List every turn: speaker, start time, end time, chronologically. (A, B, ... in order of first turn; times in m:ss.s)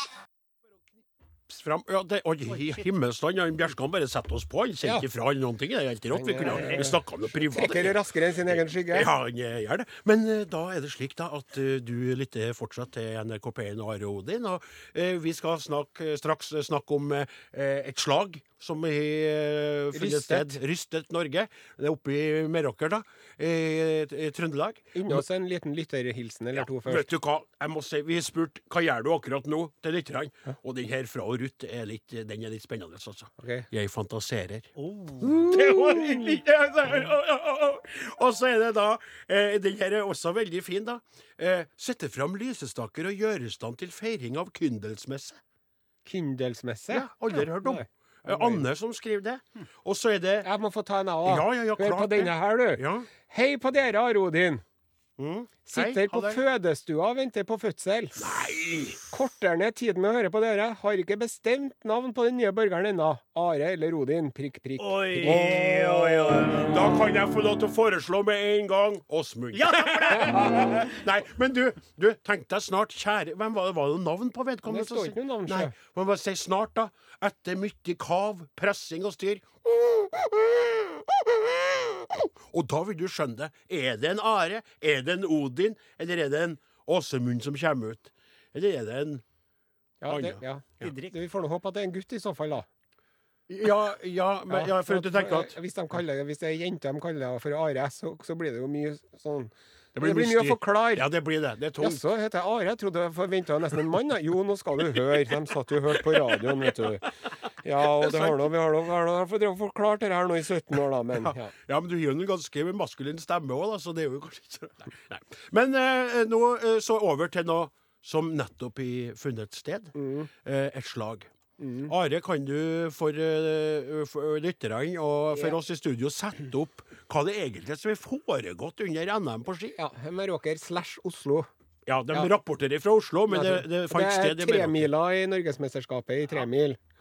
0:01.5-0:25.2 A
0:06.1-0:09.1 B
0:06.4-0:06.8 C
0:19.9-0:20.6 B
0:24.9-0:27.1 B
0:26.5-0:34.7 A
0:33.4-0:33.7 B
0:34.8-0:35.3 C
0:35.2-0:45.4 A
0:35.2-0:36.0 B
0:46.0-0:48.6 B
0:46.9-0:50.5 A
0:50.4-0:54.6 B
0:51.2-0:53.1 A
0:55.2-0:56.4 A
0:55.6-0:58.5 B
0:58.2-0:59.0 A
0:59.0-1:06.8 B
1:04.8-1:07.0 C
1:05.2-1:29.2 A
1:09.5-1:11.0 C
1:14.7-1:15.7 B
1:30.0-1:32.7 B
1:30.1-1:30.9 A
1:30.8-1:31.1 C
1:33.5-1:35.5 A
1:34.5-1:41.0 B
1:39.9-1:42.0 A
1:41.8-1:47.0 B
1:44.9-1:45.4 A
1:45.9-1:48.5 A
1:47.6-1:51.5 B
1:51.1-2:01.3 A
1:59.9-2:00.3 B
2:01.6-2:01.9 B
2:01.9-2:09.8 A
2:09.8-2:11.5 B
2:11.9-2:14.8 A
2:13.3-2:16.8 B